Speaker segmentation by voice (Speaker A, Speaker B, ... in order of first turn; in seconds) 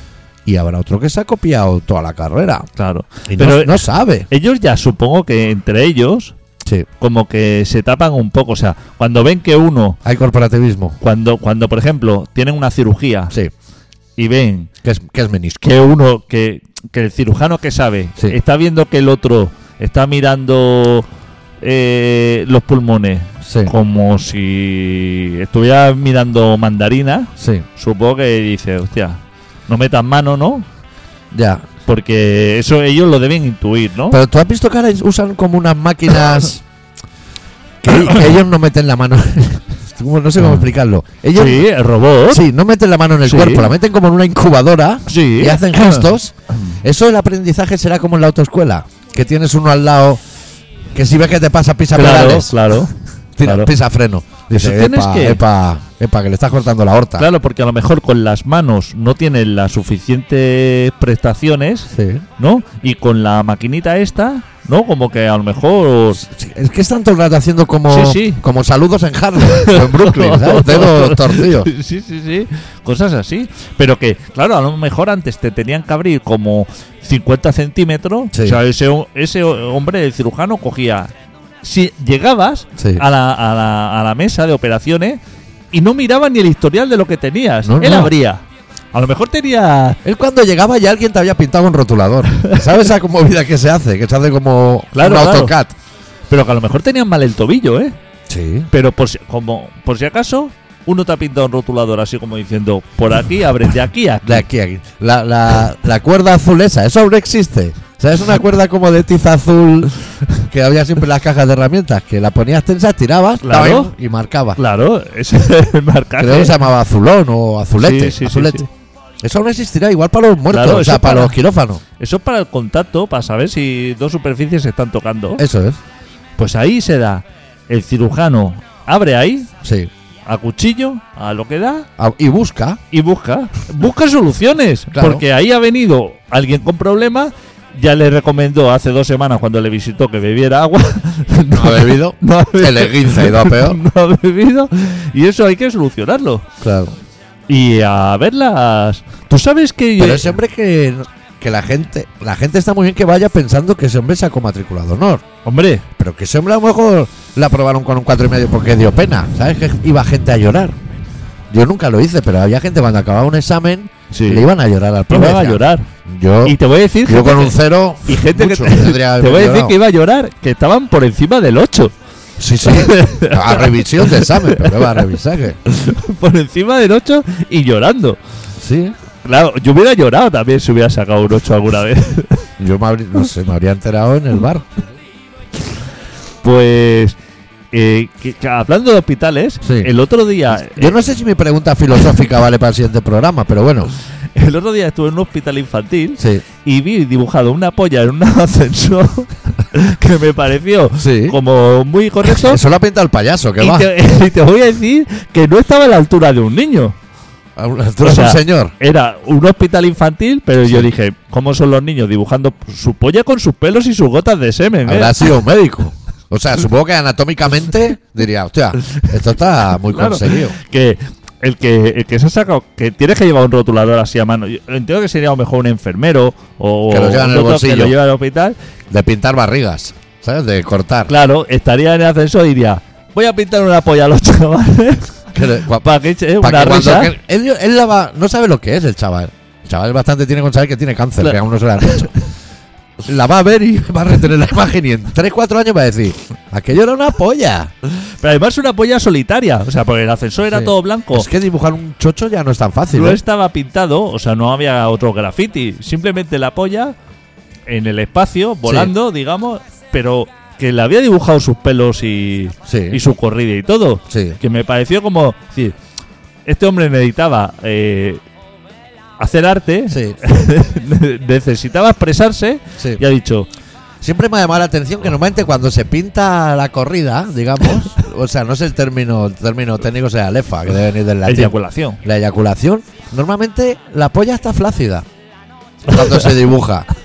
Speaker A: 0.5-2.7, 3.3-4.3, 10.0-11.0, 14.8-15.7, 23.4-23.7, 27.4-27.6, 31.3-31.6, 34.1-36.6, 37.8-41.7, 42.2-50.2, 50.9-52.8, 53.4-57.3, 61.9-62.2, 66.2-71.7, 78.3-78.6, 82.8-83.0, 87.6-88.1, 90.0-95.7, 98.3-98.7, 104.2-114.6, 116.2-118.6, 119.2-121.8, 125.4-125.8, 129.6-129.9, 132.0-132.8, 134.9-135.2, 141.5-143.8, 146.6-146.9, 150.0-155.2, 155.9-160.8, 161.5-169.8, 172.4-175.6, 178.6-178.9, 182.6-184.7, 189.6-189.9, 190.5-193.9, 196.2-196.4, 201.0-201.4, 202.2-203.9, 207.6-208.7, 214.8-220.6, 226.9-228.0, 228.9-231.1, 235.3-242.1, 243.0-247.7, 250.5-253.2, 258.6-258.9, 262.6-263.0, 264.1-264.4, 269.9-270.2, 274.0-285.1, 285.9-286.9
Speaker B: 2.8-6.3, 7.0-10.0, 11.0-13.3, 14.2-14.7, 15.6-21.1, 21.6-30.6, 31.9-34.2, 38.0-38.2, 40.4-40.7, 41.3-42.5, 43.2-43.7, 45.1-46.1, 51.9-53.7, 54.5-55.4, 57.2-66.2, 67.9-68.4, 69.4-81.1, 81.6-85.2, 85.7-90.0, 92.3-92.7, 94.9-95.5, 96.3-97.9, 98.7-104.4, 113.4-113.9, 114.6-116.6, 117.8-118.7, 120.5-121.3, 122.0-125.4, 126.4-129.5, 130.2-131.9, 132.9-146.5, 147.5-150.3, 155.4-155.8, 164.1-164.5, 165.1-165.9, 166.4-171.9, 172.6-175.0, 175.6-178.2, 179.2-182.5, 186.4-187.2, 187.7-190.9, 194.3-202.6, 203.6-206.9, 208.0-215.3, 219.9-228.6, 231.1-237.2, 241.2-242.3, 247.8-251.3, 252.9-256.9, 257.7-265.7, 266.4-268.2, 269.2-273.5, 281.2-282.0